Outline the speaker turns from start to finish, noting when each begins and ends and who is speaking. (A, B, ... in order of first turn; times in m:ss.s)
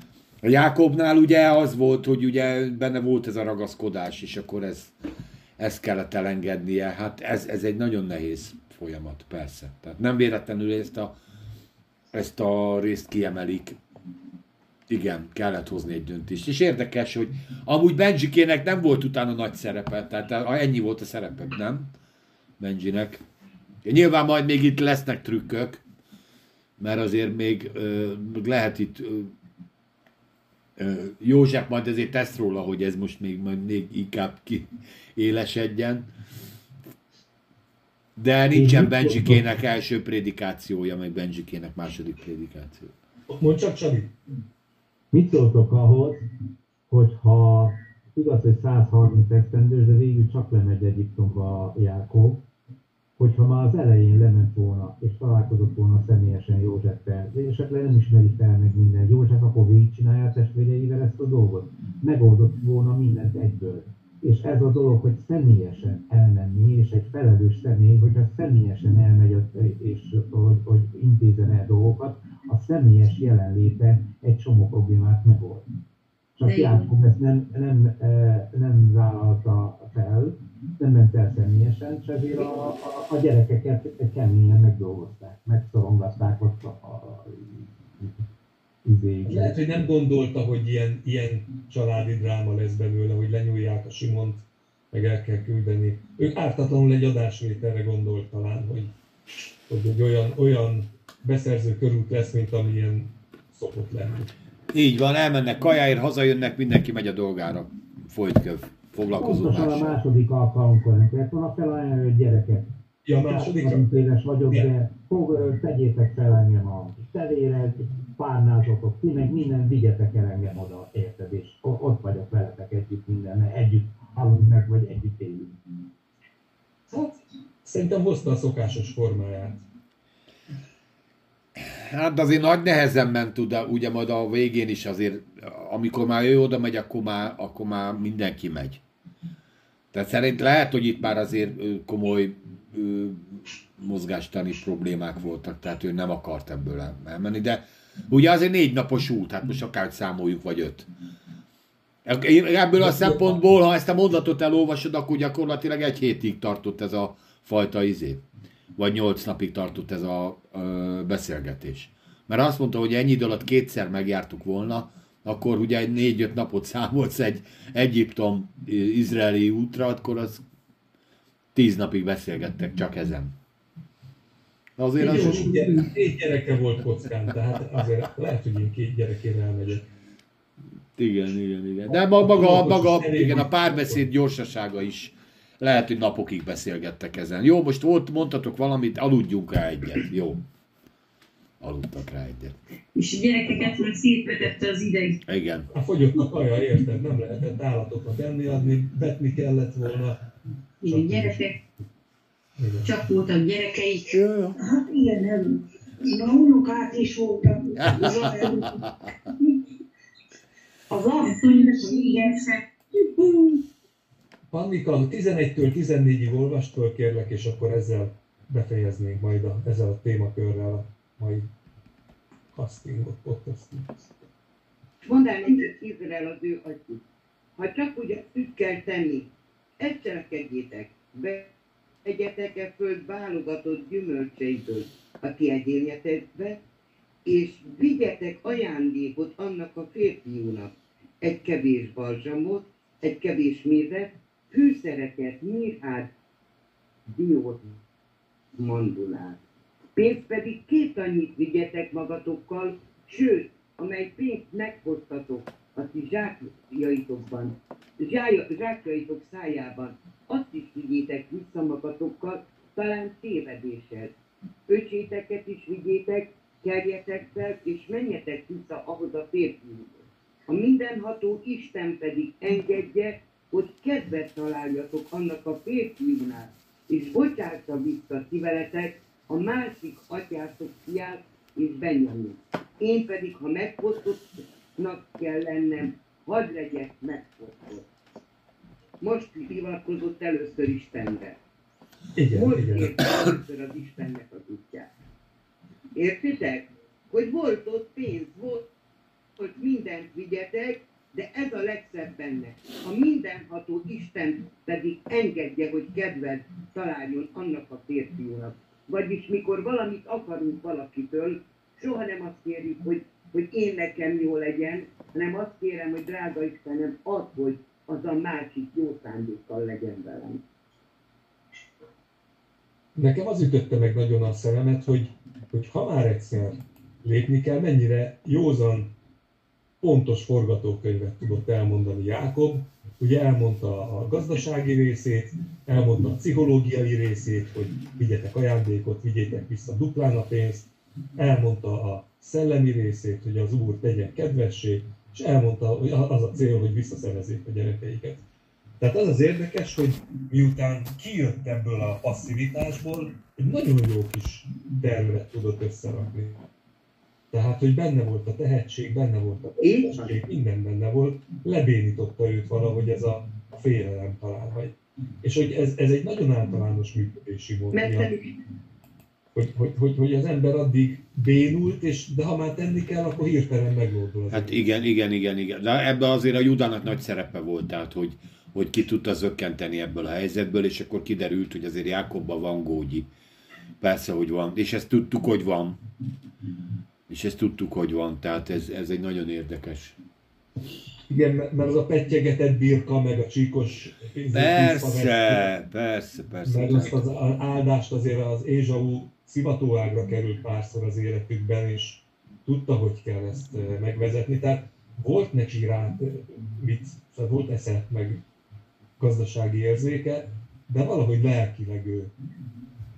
0:00.4-0:04.9 A
0:05.6-0:11.2 A
0:12.1-0:13.8 A
0:14.9-0:21.9 A
0:22.6-0:23.2 A
0:23.8-0:25.8 A
0:26.8-0:29.3 A
0:30.8-0:36.1 A
0:38.2-0:42.9 A
0:38.5-0:39.4 B
0:43.3-0:44.1 C
0:45.1-0:46.2 B
0:46.9-0:52.4 B
0:53.2-1:15.7 B
1:16.4-1:28.1 B
1:16.4-1:16.9 D
1:28.8-1:29.5 B
1:29.2-1:38.9 C
1:39.7-1:44.3 C
1:44.7-1:50.0 A
1:49.2-2:05.5 B
1:53.0-1:54.0 C
2:06.9-2:09.6 C
2:11.6-2:18.8 A
2:19.9-2:30.9 A
2:32.0-2:38.2 A
2:32.8-2:33.4 C
2:38.8-2:50.4 A
2:51.5-2:53.3 A
2:54.8-2:55.7 A
2:55.0-2:55.9 D
2:55.0-2:59.8 C
3:01.0-3:10.4 A
3:01.9-3:04.1 C
3:11.6-3:12.6 A
3:12.9-3:15.2 D
3:15.3-3:15.7 A
3:15.7-3:20.2 C
3:20.8-3:21.6 D
3:20.8-3:21.4 C
3:22.6-3:22.9 C
3:22.8-3:24.2 D
3:24.1-3:24.6 A
3:24.6-3:28.8 E
3:27.8-3:29.1 A
3:30.9-3:33.5 D
3:31.2-3:32.4 E
3:34.5-3:41.5 C
3:42.5-3:44.0 C
3:45.0-3:47.0 F
3:47.6-3:51.5 F
3:52.0-3:56.6 F
3:57.2-4:06.1 F
4:07.1-4:07.8 F
4:08.6-4:09.4 F
4:09.9-4:24.1 F
4:24.7-4:47.9 F
4:49.0-4:51.4 F
4:52.2-4:52.9 C
4:52.3-4:54.9 F
4:55.9-4:58.6 F
4:59.4-5:20.4 F
5:23.0-5:28.9 C
5:29.8-5:48.2 C
5:48.8-5:56.4 C
5:57.3-6:08.1 C
5:59.6-6:00.2 F
6:07.7-6:08.3 F
6:09.3-6:14.8 C
6:14.3-6:23.1 A
6:23.8-6:25.8 A
6:27.1-6:30.0 A
6:31.1-6:35.5 C
6:34.3-6:37.0 A
6:36.4-6:48.2 C
6:49.0-6:52.1 C